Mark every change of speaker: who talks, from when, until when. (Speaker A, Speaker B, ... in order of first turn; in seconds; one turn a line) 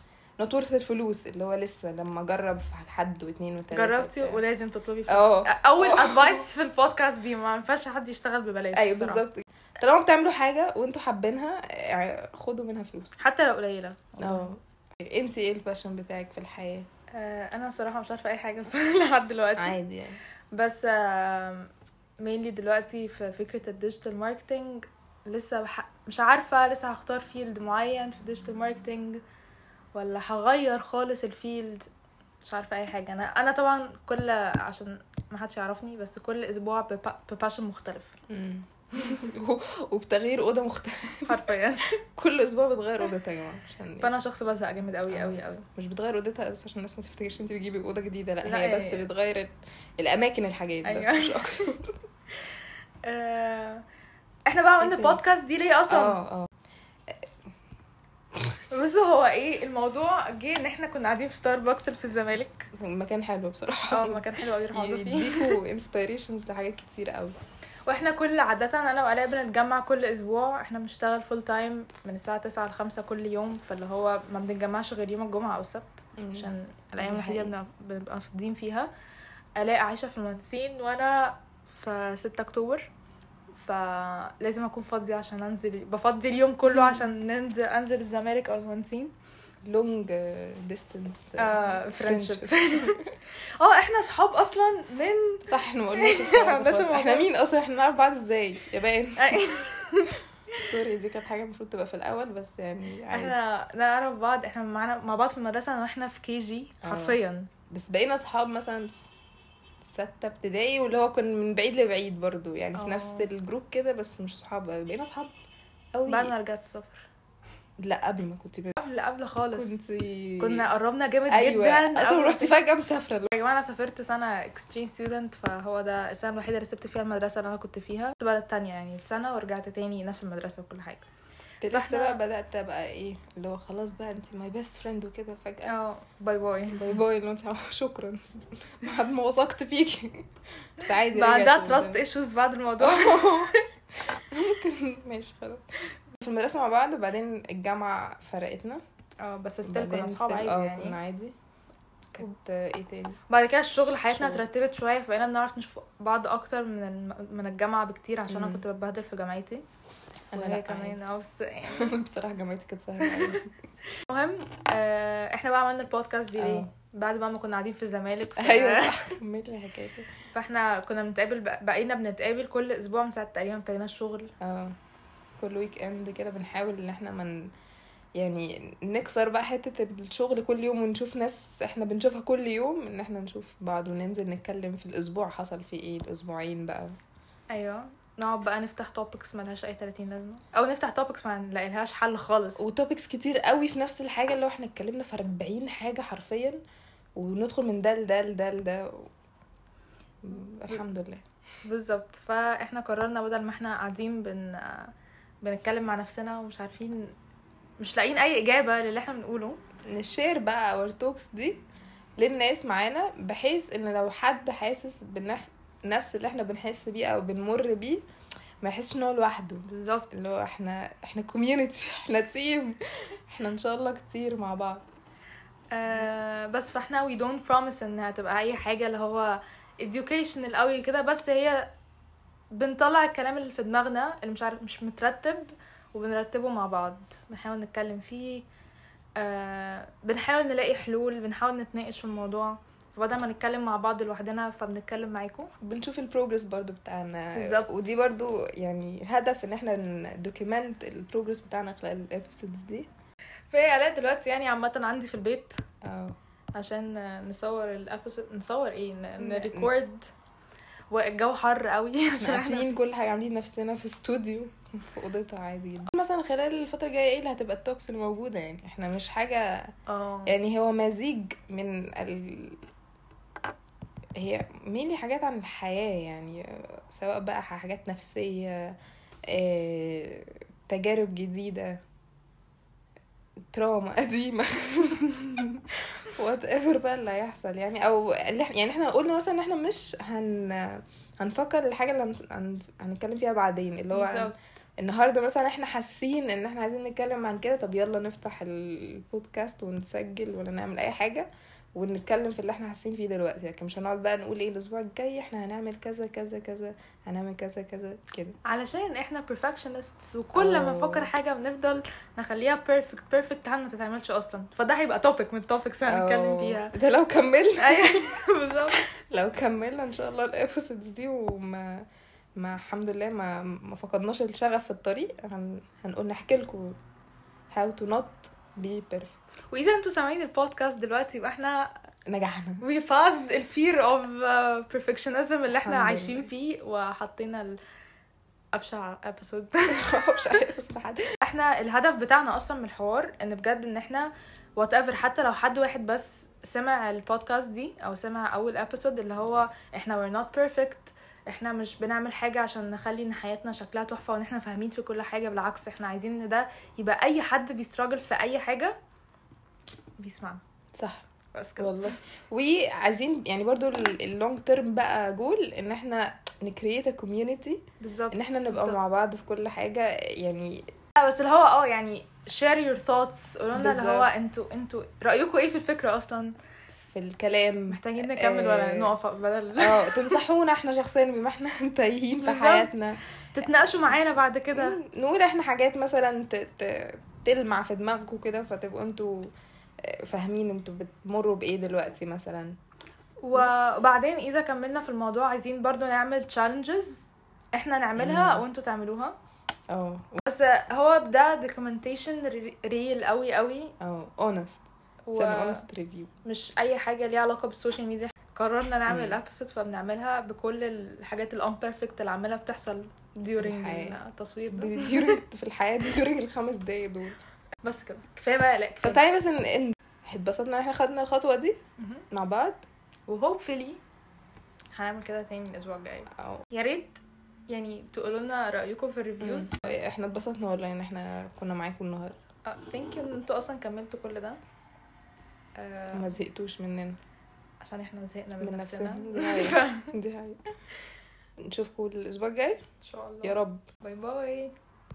Speaker A: 0.4-4.4
Speaker B: 3.7-9.2
Speaker A: 5.1-6.5
Speaker A: 8.7-13.2
Speaker B: 13.2-14.5
Speaker A: 14.2-16.9
Speaker B: 17.1-19.8
Speaker A: 19.6-20.2
Speaker B: 20.5-29.2
Speaker B: 29.9-31.9
Speaker B: 32.4-38.1
Speaker A: 38.3-41.4
Speaker B: 41.3-41.9
Speaker A: 42.0-44.1
Speaker B: 44.0-45.6
Speaker A: 45.1-52.0
Speaker B: 48.4-49.0
Speaker B: 50.8-51.4
Speaker B: 53.0-53.8
Speaker B: 54.5-56.2
Speaker A: 54.8-55.2
Speaker A: 55.9-56.5
Speaker A: 57.1-57.3
Speaker B: 58.7-62.7
Speaker A: 62.7-67.3
Speaker B: 63.9-65.6
Speaker B: 67.9-78.9
Speaker A: 76.2-77.5
Speaker B: 79.6-82.9
Speaker B: 83.5-89.1
Speaker A: 86.7-87.0
Speaker A: 89.7-93.2
Speaker B: 91.4-93.0
Speaker B: 93.6-95.5
Speaker A: 95.4-99.5
Speaker B: 96.0-97.3
Speaker B: 99.2-100.6
Speaker A: 100.6-103.4
Speaker B: 103.1-107.5
Speaker A: 106.8-107.2
Speaker A: 107.7-108.9
Speaker A: 109.8-115.3
Speaker B: 112.7-113.3
Speaker A: 115.9-116.3
Speaker B: 116.0-117.0
Speaker A: 117.8-118.8
Speaker B: 118.8-119.8
Speaker A: 119.5-120.7
Speaker B: 120.4-122.5
Speaker A: 121.3-123.3
Speaker B: 123.3-131.1
Speaker A: 131.6-135.7
Speaker B: 131.7-132.2
Speaker B: 135.7-137.0
Speaker A: 136.7-142.0
Speaker B: 141.1-143.6
Speaker A: 142.8-148.8
Speaker B: 149.2-151.0
Speaker A: 149.6-151.3
Speaker A: 152.1-153.2
Speaker B: 153.3-159.6
Speaker A: 153.8-154.4
Speaker A: 158.3-158.6
Speaker A: 160.3-161.0
Speaker B: 160.3-161.9
Speaker A: 161.7-163.5
Speaker B: 163.0-169.0
Speaker A: 166.4-166.7
Speaker A: 168.4-170.1
Speaker B: 170.3-174.3
Speaker A: 174.4-174.8
Speaker A: 175.4-177.5
Speaker A: 178.2-186.9
Speaker B: 187.5-192.6
Speaker A: 192.6-196.6
Speaker A: 197.2-199.1
Speaker A: 200.2-201.2
Speaker B: 201.6-204.9
Speaker B: 205.4-207.1
Speaker B: 207.8-209.6
Speaker A: 209.9-211.6
Speaker A: 212.2-218.0
Speaker A: 218.6-224.8
Speaker B: 219.7-220.1
Speaker B: 225.7-231.7
Speaker B: 232.5-238.4
Speaker B: 239.2-245.5
Speaker A: 245.6-252.9
Speaker B: 247.3-247.7
Speaker B: 253.5-255.6
Speaker A: 255.8-256.2
Speaker B: 256.5-260.1
Speaker A: 259.2-259.7
Speaker B: 260.9-262.7
Speaker A: 262.2-269.4
Speaker B: 269.9-270.4
Speaker A: 270.2-272.6
Speaker A: 274.1-278.8
Speaker A: 279.3-281.8
Speaker A: 283.5-308.4
Speaker B: 293.9-294.3
Speaker B: 308.4-316.7
Speaker A: 310.3-311.1
Speaker A: 315.9-318.1
Speaker B: 317.6-318.8
Speaker A: 318.9-321.9
Speaker A: 322.4-326.8
Speaker A: 327.5-329.2
Speaker B: 329.5-331.8
Speaker A: 332.1-332.6
Speaker B: 332.6-337.6
Speaker A: 335.6-336.3
Speaker B: 338.5-339.9
Speaker A: 339.7-341.1
Speaker B: 341.2-358.8
Speaker B: 360.0-360.4
Speaker A: 360.8-361.0
Speaker B: 361.3-361.9
Speaker A: 361.6-370.6
Speaker B: 367.8-368.8
Speaker B: 371.0-376.3
Speaker A: 373.5-374.1
Speaker A: 376.8-378.9
Speaker B: 377.7-380.2
Speaker A: 379.6-383.4
Speaker B: 382.2-382.7
Speaker B: 383.4-384.8
Speaker A: 384.6-389.3
Speaker A: 389.8-392.5
Speaker B: 393.2-399.1
Speaker A: 397.9-398.4
Speaker A: 399.7-400.2
Speaker B: 400.2-403.7
Speaker A: 403.8-406.1
Speaker B: 405.1-405.6
Speaker B: 406.2-415.2
Speaker A: 408.9-409.2
Speaker A: 413.4-414.0
Speaker A: 414.5-417.2
Speaker B: 417.6-419.0
Speaker A: 418.8-421.6
Speaker B: 421.8-422.0
Speaker A: 422.1-422.6
Speaker B: 423.1-423.8
Speaker B: 424.8-429.6
Speaker A: 429.2-432.2
Speaker B: 432.4-434.4
Speaker B: 435.6-436.1
Speaker A: 435.9-437.0
Speaker B: 437.6-439.9
Speaker A: 438.4-440.4
Speaker A: 441.4-442.6
Speaker B: 442.8-444.5
Speaker A: 443.2-443.6